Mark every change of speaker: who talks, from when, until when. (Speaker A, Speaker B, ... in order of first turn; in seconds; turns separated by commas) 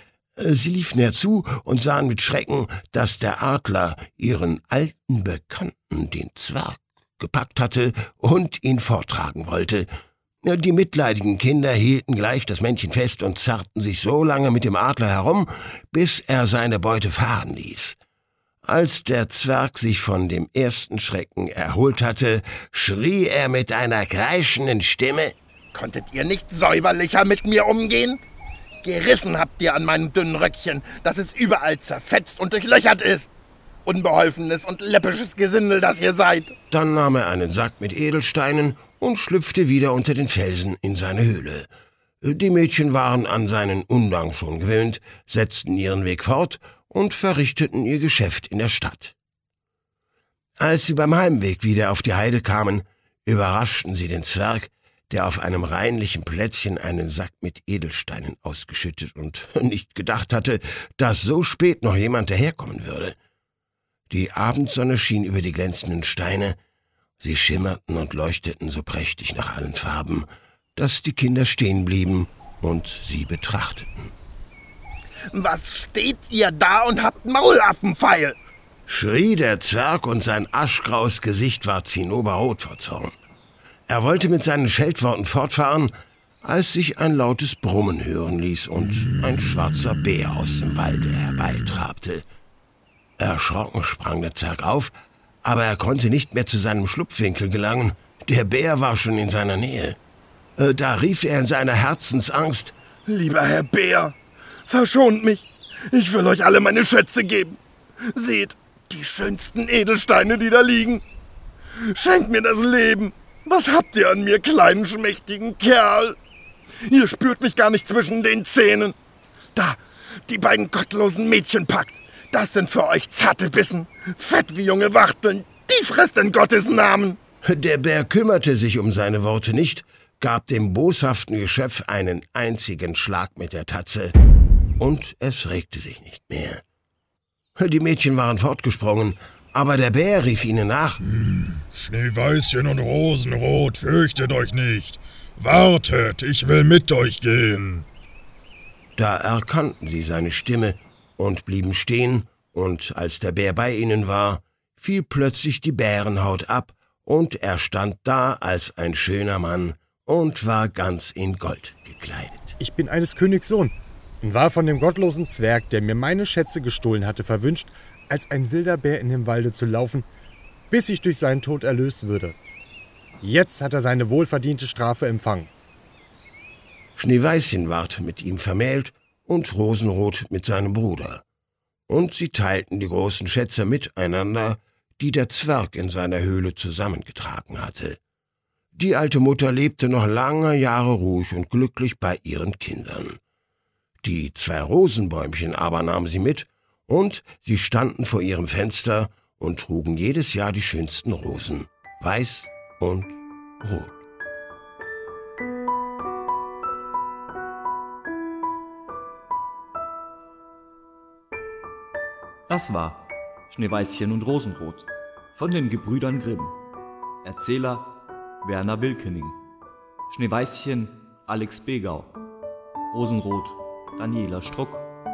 Speaker A: 0.4-9.9, Speaker A: 10.4-18.0, Speaker A: 18.6-25.4, Speaker B: 25.7-28.2, Speaker B: 28.8-33.3, Speaker B: 33.9-36.5, Speaker A: 36.7-41.7, Speaker A: 42.2-49.2, Speaker A: 50.6-63.2, Speaker A: 64.1-66.6, Speaker A: 67.2-74.1, Speaker B: 75.3-78.4, Speaker A: 78.9-83.2, Speaker A: 83.9-85.9, Speaker A: 86.4-92.2, Speaker A: 93.2-94.9, Speaker A: 95.4-100.0, Speaker A: 100.6-102.8, Speaker B: 103.1-104.2, Speaker B: 104.7-111.0, Speaker B: 111.8-116.2, Speaker B: 116.9-119.0, Speaker B: 119.5-127.2, Speaker A: 127.5-134.1, Speaker A: 134.8-136.6, Speaker A: 137.6-141.0, Speaker C: 141.0-147.9, Speaker A: 149.0-162.6, Speaker D: 162.6-170.1, Speaker D: 170.7-172.4, Speaker D: 173.2-175.5, Speaker A: 177.0-181.2, Speaker A: 181.9-188.0, Speaker A: 188.8-193.2, Speaker A: 194.0-204.0, Speaker E: 212.5-216.6, Speaker E: 217.2-219.4, Speaker E: 220.1-222.1, Speaker E: 222.9-224.9